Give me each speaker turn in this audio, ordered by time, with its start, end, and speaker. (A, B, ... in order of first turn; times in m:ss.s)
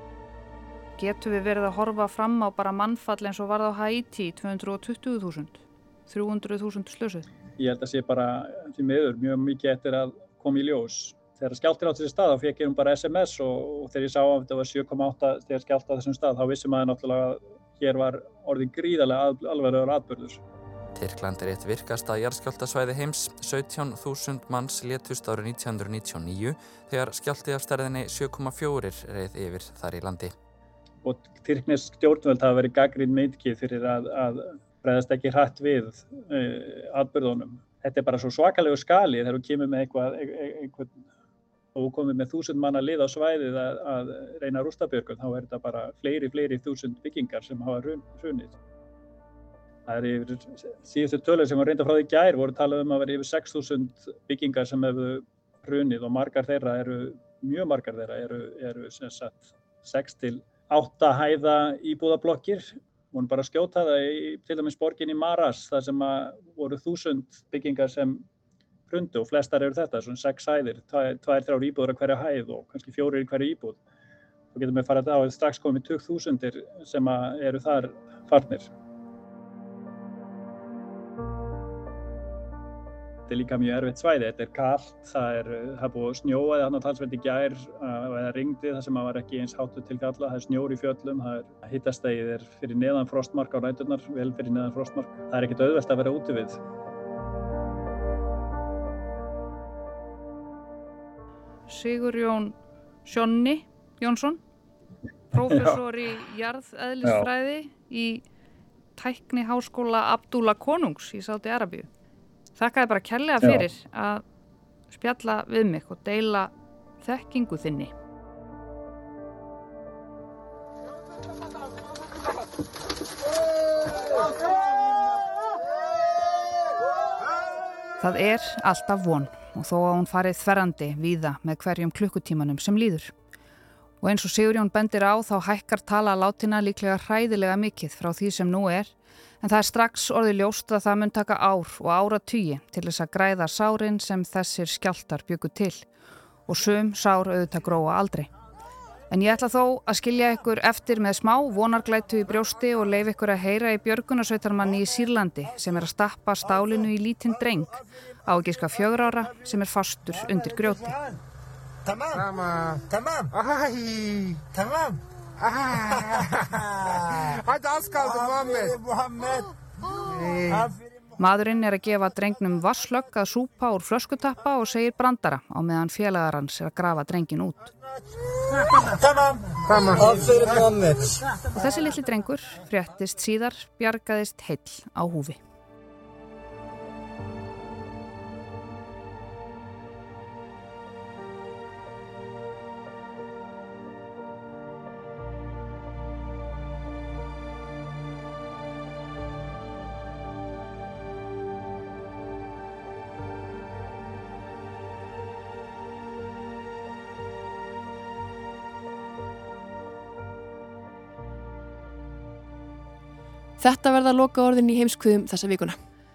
0:01.0-0:07.3 A
0:07.6-0:20.4 B
0:21.0-0:30.3 C
0:31.0-0:41.0 B
0:41.8-0:48.5 B
0:49.9-1:08.2 B
1:08.9-1:13.8 B
1:14.5-1:18.7 B
1:23.3-1:36.6 B
1:41.7-1:44.4 A
1:45.3-1:48.2 A
1:45.4-1:45.8 B
1:47.0-1:47.3 B
1:49.0-1:51.9 A
1:52.6-1:54.2 A
1:54.9-1:57.9 A
2:08.0-2:13.1 A
2:14.0-2:25.8 A
2:26.5-2:28.3 A
2:29.1-2:41.0 A
2:41.9-2:44.7 D
2:47.6-2:48.8 D
2:51.2-2:57.8 A
3:01.5-3:05.4 A
3:33.6-3:35.8 E